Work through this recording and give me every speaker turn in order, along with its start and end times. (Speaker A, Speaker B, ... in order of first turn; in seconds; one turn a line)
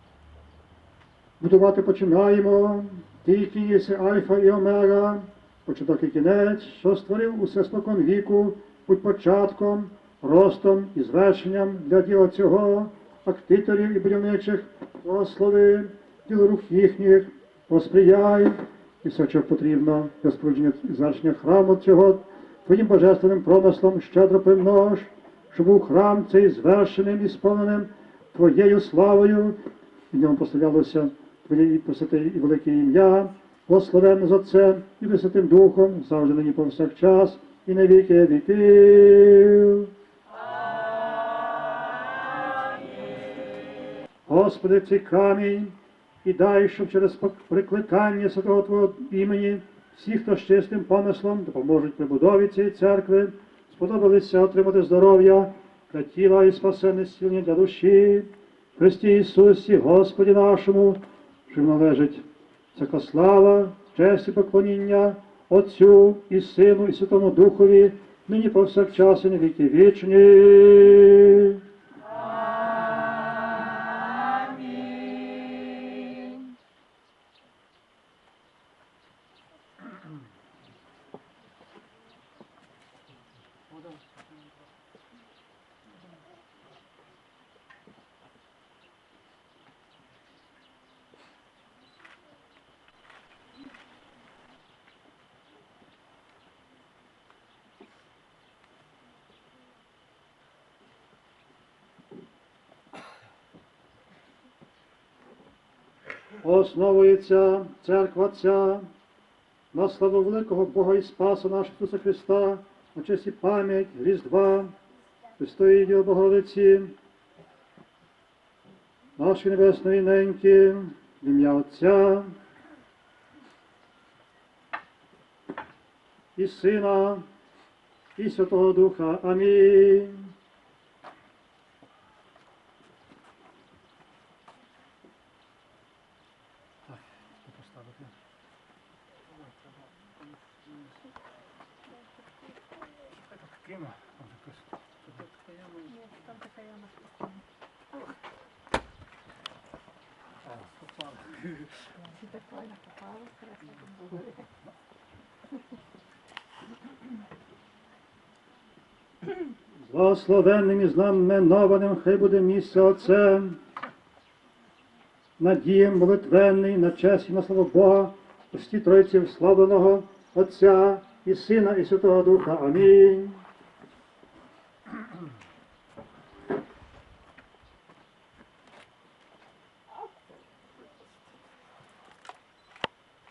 Speaker A: 1.4-29.6
Speaker A: 30.1-39.9
Speaker A: 44.3-71.6
Speaker A: 106.4-108.9
Speaker A: 109.7-114.7
Speaker A: 115.4-117.0
Speaker A: 119.2-122.3
Speaker A: 126.4-127.2
Speaker A: 128.2-130.3
Speaker A: 136.9-138.1
Speaker A: 143.2-146.0
Speaker A: 150.5-151.4
Speaker A: 159.9-163.6
Speaker A: 165.4-173.4